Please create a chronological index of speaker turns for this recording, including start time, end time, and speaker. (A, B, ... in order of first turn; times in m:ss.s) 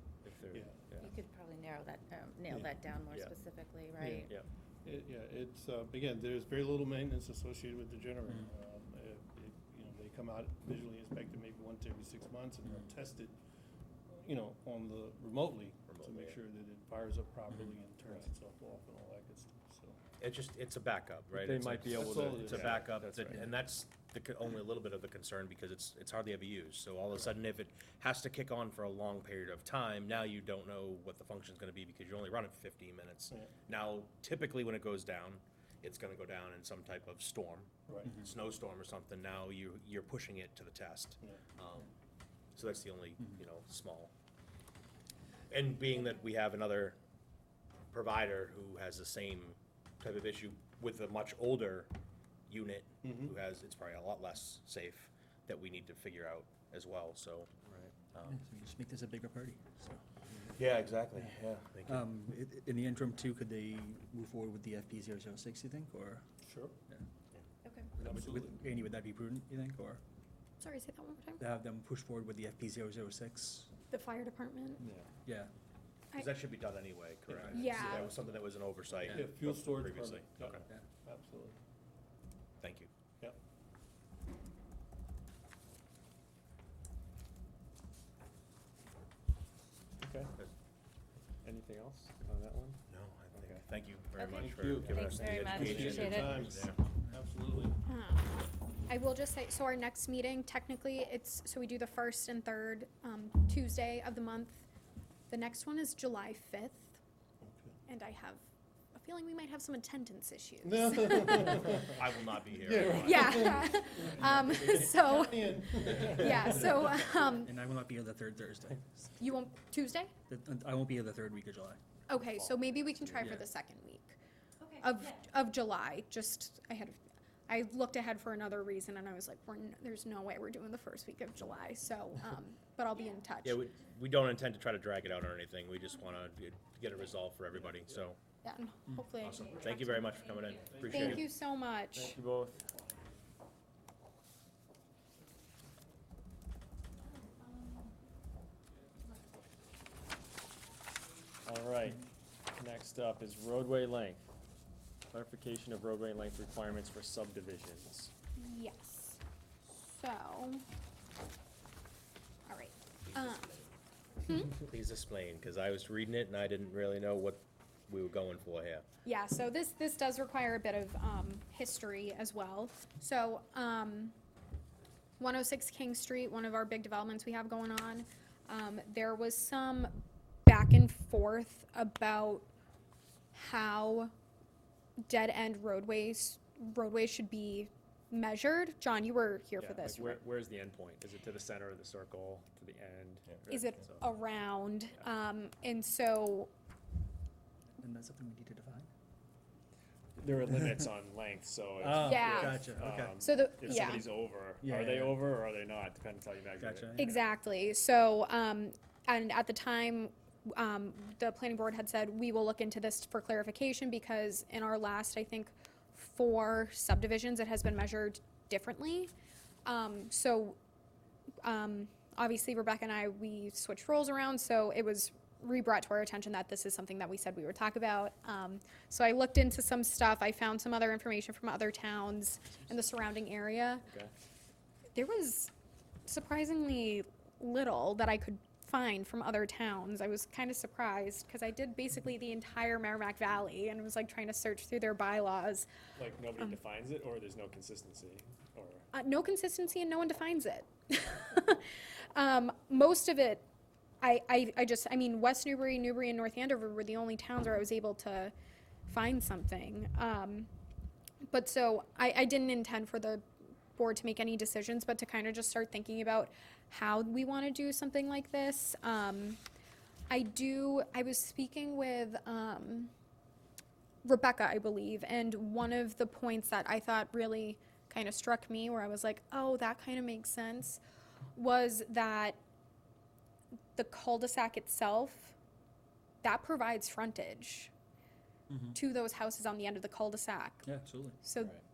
0:00.2-0:01.1 A
0:00.5-0:01.1 B
0:01.0-0:04.3 C
0:04.0-0:04.4 A
0:04.8-0:13.4 B
0:14.1-0:20.0 B
0:15.9-0:16.4 D
0:20.2-0:41.9 D
0:21.4-0:23.5 A
0:21.9-0:22.9 B
0:37.9-0:38.2 B
0:42.5-0:44.1 D
0:45.5-0:47.0 D
0:47.9-0:51.9 D
0:52.5-0:57.5 D
0:53.0-0:53.3 B
0:57.6-0:57.9 A
0:58.1-0:58.4 D
0:58.3-1:00.0 E
1:00.6-1:02.0 D
1:01.8-1:06.2 E
1:06.4-1:06.8 B
1:07.6-1:07.9 C
1:08.0-1:08.6 B
1:08.0-1:10.0 E
1:10.6-1:11.4 F
1:11.4-1:13.7 E
1:13.9-1:14.8 F
1:14.8-1:15.1 A
1:15.2-1:15.5 E
1:16.1-1:20.6 D
1:17.3-1:18.1 B
1:17.5-1:18.1 F
1:19.0-1:21.6 B
1:22.6-1:22.9 D
1:30.0-1:30.3 A
1:31.4-1:32.8 A
1:32.9-1:36.8 D
1:33.3-1:33.6 A
1:34.3-1:37.8 B
1:34.7-1:35.0 A
1:35.0-1:35.5 C
1:35.5-1:36.0 F
1:36.0-1:36.3 C
1:37.8-1:44.6 F
1:45.3-1:47.0 F
1:47.4-1:47.7 B
1:47.9-1:48.4 F
1:48.9-1:51.9 F
1:50.6-1:56.9 B
1:51.9-1:53.6 D
1:52.9-1:57.5 F
1:57.3-1:59.2 E
1:59.2-2:00.1 F
2:00.3-2:01.8 E
2:02.1-2:04.2 F
2:02.1-2:03.4 A
2:04.6-2:04.9 C
2:04.8-2:13.6 F
2:13.4-2:18.2 D
2:18.4-2:20.1 F
2:19.2-2:21.3 D
2:20.7-2:21.2 B
2:20.9-2:22.1 F
2:21.9-2:22.6 A
2:31.4-2:34.3 A
2:35.1-2:38.1 A
2:38.4-2:39.2 F
2:39.8-2:40.6 F
2:42.5-2:43.5 F
2:44.2-2:44.5 F
2:44.5-2:48.8 D
2:49.0-2:54.1 F
2:55.2-2:59.9 F
3:00.4-3:02.5 F
3:03.3-3:04.1 F
3:05.1-3:10.2 F
3:09.6-3:14.1 A
3:13.5-3:16.5 F
3:17.8-3:18.9 E
3:20.2-3:27.1 A
3:21.8-3:24.0 E
3:22.0-3:24.0 F
3:24.6-3:25.2 E
3:26.6-3:27.2 E
3:27.0-3:39.1 F
3:39.6-3:40.6 F
3:41.4-3:53.8 F
3:53.8-3:54.1 A
3:54.9-3:55.5 F
3:56.0-4:05.7 F
4:06.0-4:08.9 A
4:08.9-4:13.4 F
4:14.0-4:18.3 F
4:18.9-4:20.5 F
4:21.3-4:23.2 F
4:23.8-4:29.4 F
4:30.1-4:32.9 F
4:34.0-4:40.8 F
4:41.3-4:42.4 F
4:43.8-4:45.3 F
4:46.2-4:47.7 F
4:48.5-4:48.8 E
4:48.7-4:50.7 F
4:50.6-4:51.2 E
4:51.2-4:51.6 F